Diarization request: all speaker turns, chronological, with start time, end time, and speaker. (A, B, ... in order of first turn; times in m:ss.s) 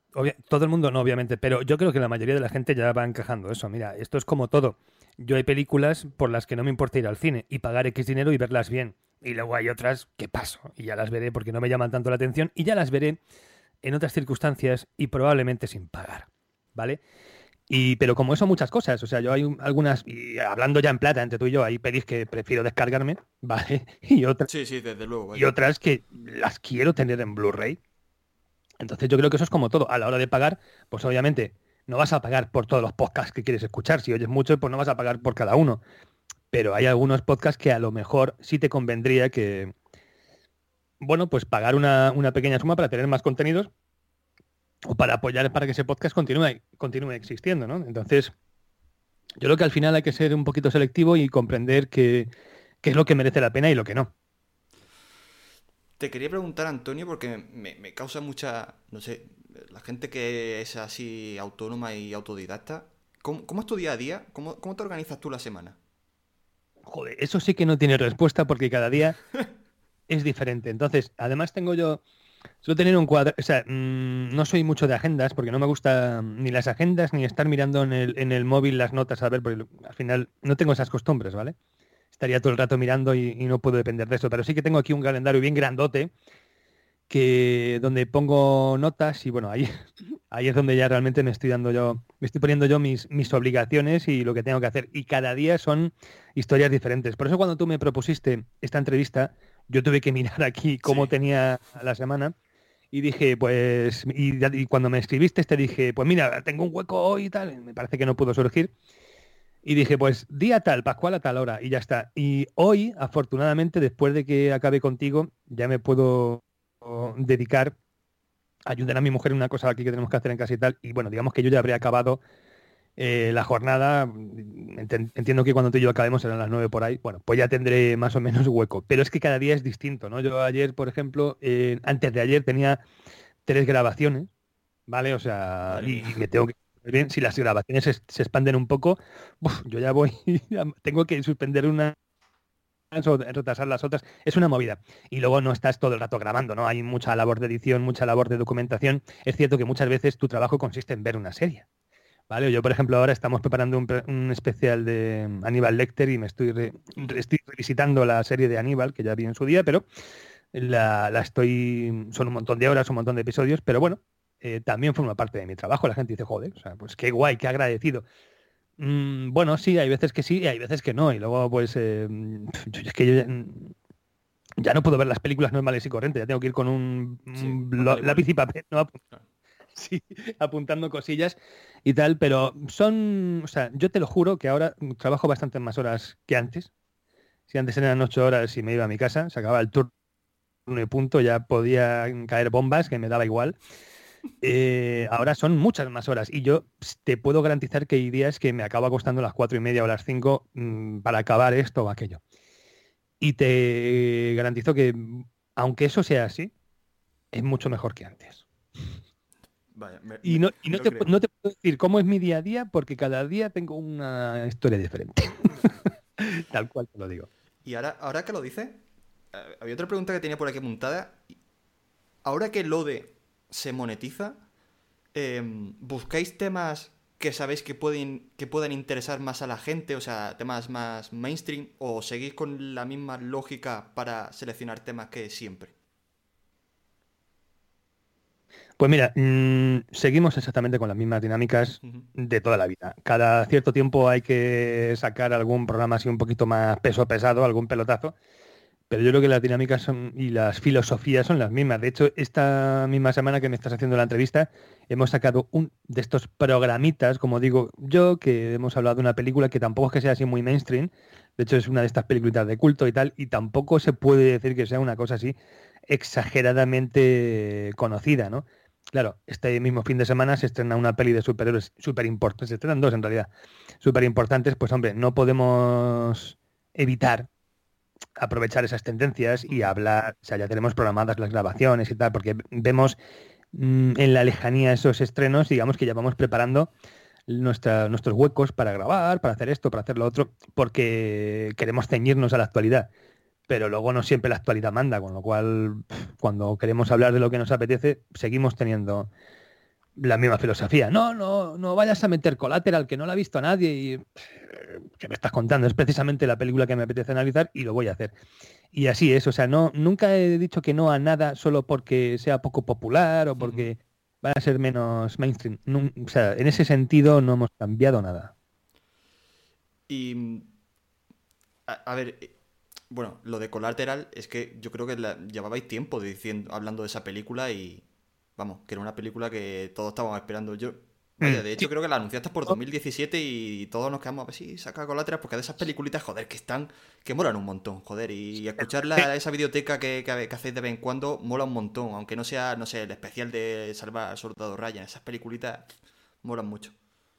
0:00.1-0:13.2 A
0:13.8-0:17.0 A
0:17.7-0:24.5 A
0:24.5-0:25.5 B
0:25.3-0:27.8 A
0:28.8-0:35.8 A
0:36.5-0:39.7 A
0:41.0-0:43.7 A
0:44.9-0:48.3 A
0:49.4-0:52.3 A
0:52.8-0:54.1 A
0:56.0-1:05.8 B
1:06.9-1:09.2 A
1:10.1-1:12.0 A
1:12.6-1:21.6 A
1:22.1-1:26.1 A
1:27.1-1:42.3 A
1:40.8-1:41.1 B
1:42.9-1:48.7 A
1:49.6-1:57.8 A
1:58.7-2:02.2 A
2:03.0-2:12.8 A
2:13.5-2:14.3 A
2:14.9-2:22.0 A
2:15.7-2:16.2 B
2:22.9-2:31.6 A
2:32.3-2:39.8 A
2:40.5-2:48.0 A
2:48.8-2:53.7 A
2:54.6-2:59.0 A
2:57.4-2:58.2 B
2:59.8-3:06.7 A
3:07.5-3:09.9 A
3:10.7-3:13.6 A
3:14.4-3:22.2 A
3:23.2-3:26.5 A
3:27.3-3:28.4 A
3:29.7-3:31.1 B
3:30.2-3:37.3 A
3:37.6-3:38.8 B
3:39.3-3:41.3 B
3:42.2-3:44.4 B
3:45.1-3:55.7 B
3:58.8-4:08.2 A
4:08.9-4:25.4 A
4:25.9-4:33.3 A
4:33.8-4:37.3 A
4:38.2-4:43.0 A
4:43.5-4:46.7 A
4:47.3-4:52.9 A
4:53.5-4:59.1 A
5:00.0-5:08.1 A
5:08.7-5:18.3 A
5:13.4-5:13.7 B
5:19.9-5:20.5 B
5:21.7-5:22.3 B
5:22.9-5:27.8 B
5:28.4-5:45.7 B
5:31.2-5:31.6 A
5:38.6-5:39.1 A
5:46.2-5:46.7 B